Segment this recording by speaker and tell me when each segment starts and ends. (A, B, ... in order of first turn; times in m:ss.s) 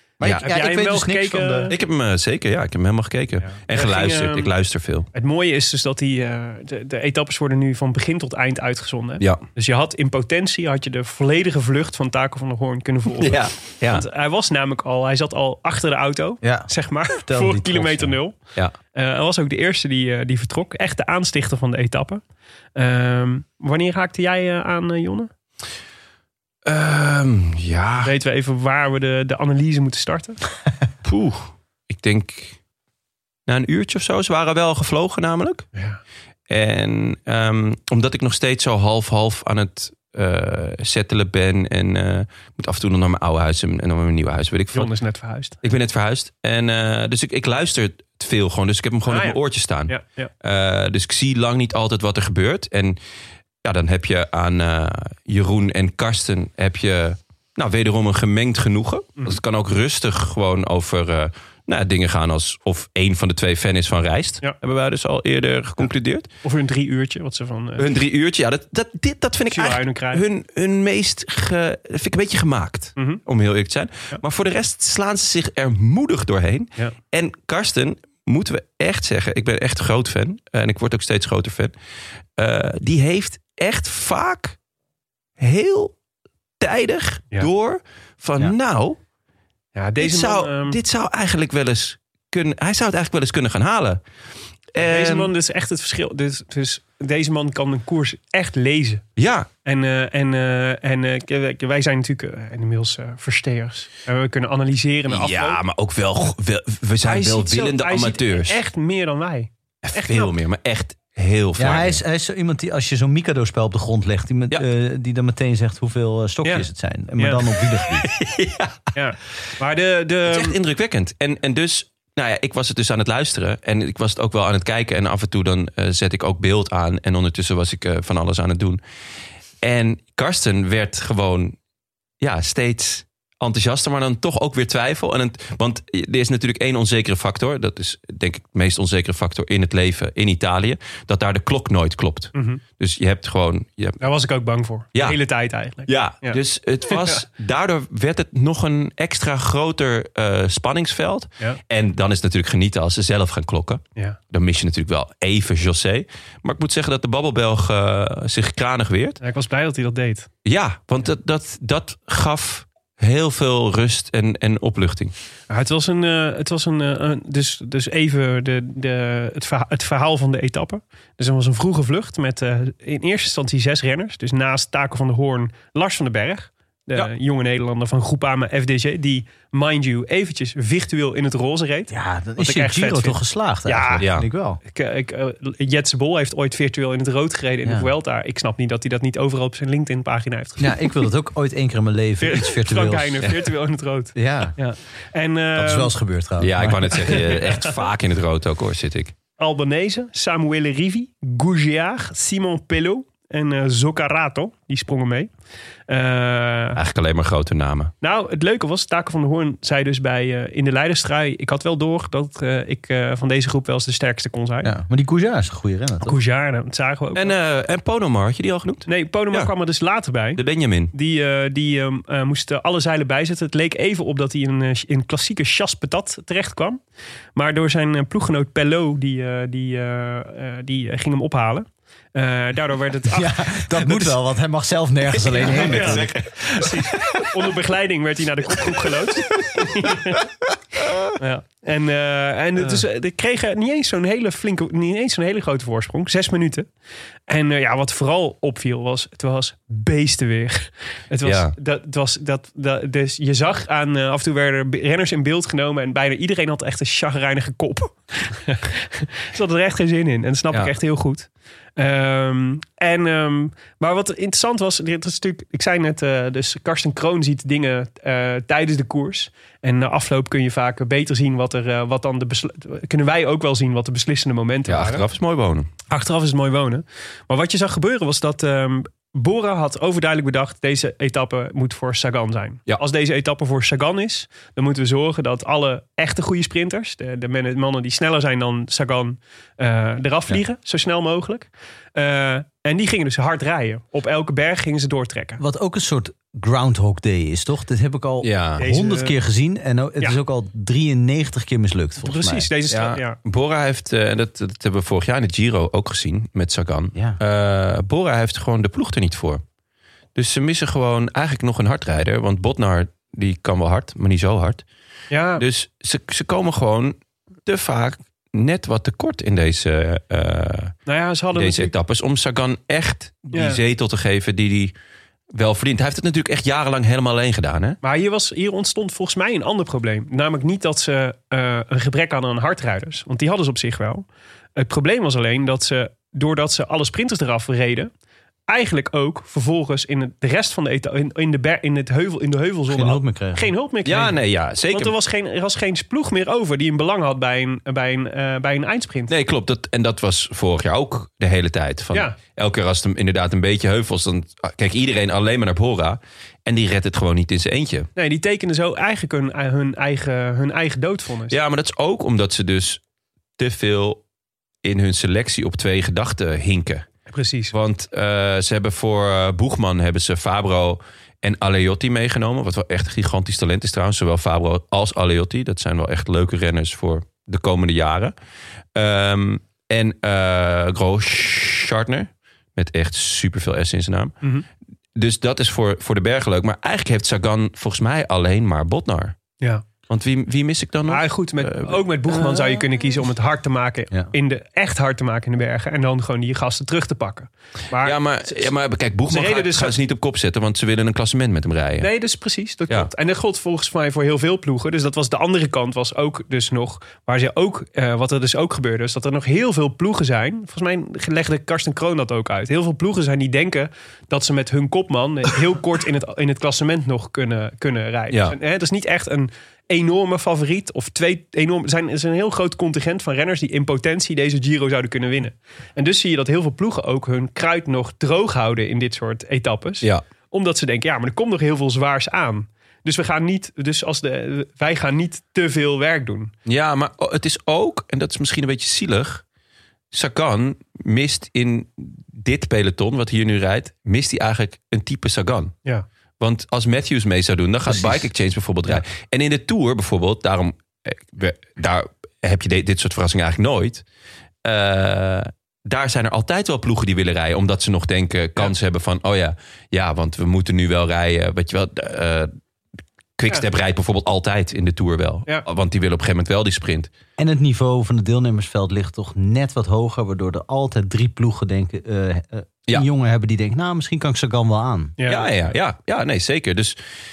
0:00.2-0:01.7 A
0:00.4-0:01.7 B
0:01.7-0:05.1 C
0:03.4-0:04.5 B
0:05.1-0:18.4 B
0:13.2-0:14.0 C
0:16.4-0:18.2 A
0:18.9-0:22.2 B
0:22.7-0:25.3 B
0:26.6-0:28.1 C
0:28.0-0:30.4 B
0:31.0-0:32.6 C
0:33.5-0:35.7 C
0:35.7-0:36.0 B
0:36.5-0:44.9 C
0:44.7-0:45.6 B
0:45.6-0:53.0 C
0:49.1-0:50.3 B
0:53.6-1:06.3 C
1:06.4-1:07.8 B
1:07.8-1:21.7 C
1:09.5-1:10.2 B
1:22.4-1:24.6 C
1:25.4-1:25.9 C
1:26.6-1:29.0 C
1:29.7-1:30.8 B
1:30.0-1:34.0 C
1:34.7-1:35.3 C
1:34.8-1:39.0 B
1:39.2-1:39.5 C
1:39.6-1:45.6 B
1:45.1-1:48.6 C
1:47.0-1:50.3 B
1:49.8-1:52.0 C
1:51.6-1:58.1 A
1:57.2-1:57.4 B
1:58.0-1:58.8 C
1:58.9-2:00.6 B
2:00.2-2:08.8 C
2:09.6-2:11.6 C
2:12.2-2:24.0 C
2:22.3-2:22.6 B
2:24.0-2:27.2 B
2:24.9-2:25.2 C
2:25.8-2:39.2 C
2:39.2-2:40.3 B
2:40.4-2:45.1 C
2:45.5-3:04.1 B
3:01.9-3:04.6 A
3:04.0-3:04.2 C
3:04.7-3:11.1 B
3:07.6-3:07.9 A
3:10.6-3:13.3 A
3:12.2-3:15.9 B
3:14.1-3:14.6 A
3:15.6-3:17.2 A
3:16.4-3:19.1 C
3:17.1-3:17.7 B
3:19.4-3:25.3 B
3:25.9-3:26.8 B
3:26.8-3:27.9 C
3:28.0-3:34.7 B
3:34.6-3:36.2 A
3:36.0-3:37.4 B
3:37.1-3:39.5 C
3:38.9-3:40.4 B
3:40.4-3:40.9 C
3:40.9-3:46.8 B
3:47.4-3:54.1 B
3:53.1-3:56.1 A
3:55.1-3:57.3 C
3:55.4-4:00.3 B
4:01.2-4:06.7 B
4:07.3-4:35.0 B
4:11.2-4:11.5 C
4:34.7-4:35.7 C
4:35.9-4:55.4 B
4:55.4-5:02.5 A
4:58.2-4:58.6 C
4:58.6-4:59.1 B
5:02.0-5:03.2 B
5:02.7-5:09.4 C
5:10.1-5:14.6 C
5:15.1-5:15.4 B
5:15.4-5:20.8 C
5:20.9-5:21.7 B
5:21.3-5:24.7 C
5:23.3-5:23.6 B
5:25.3-5:27.8 C
5:27.8-5:34.0 B
5:34.6-5:37.9 B
5:38.5-5:44.2 B
5:42.7-5:43.5 A
5:43.8-5:44.9 C
5:44.7-5:49.1 B
5:49.1-5:57.9 C
5:58.0-6:01.4 B
6:01.3-6:02.8 C
6:03.4-6:04.0 C
6:04.6-6:06.9 C
6:07.1-6:07.5 B
6:07.5-6:18.1 C
6:18.7-6:24.2 C
6:24.9-6:29.2 C
6:29.9-6:32.5 C
6:30.9-6:38.5 B
6:37.8-6:41.9 C
6:39.1-6:39.7 B
6:41.8-7:16.3 B
7:16.4-7:19.2 C
7:19.9-7:25.5 C
7:26.2-7:33.8 C
7:27.7-7:28.0 A
7:34.4-7:42.3 C
7:43.2-7:46.9 C
7:47.2-7:55.0 A
7:55.0-7:55.3 B
7:55.1-7:56.8 C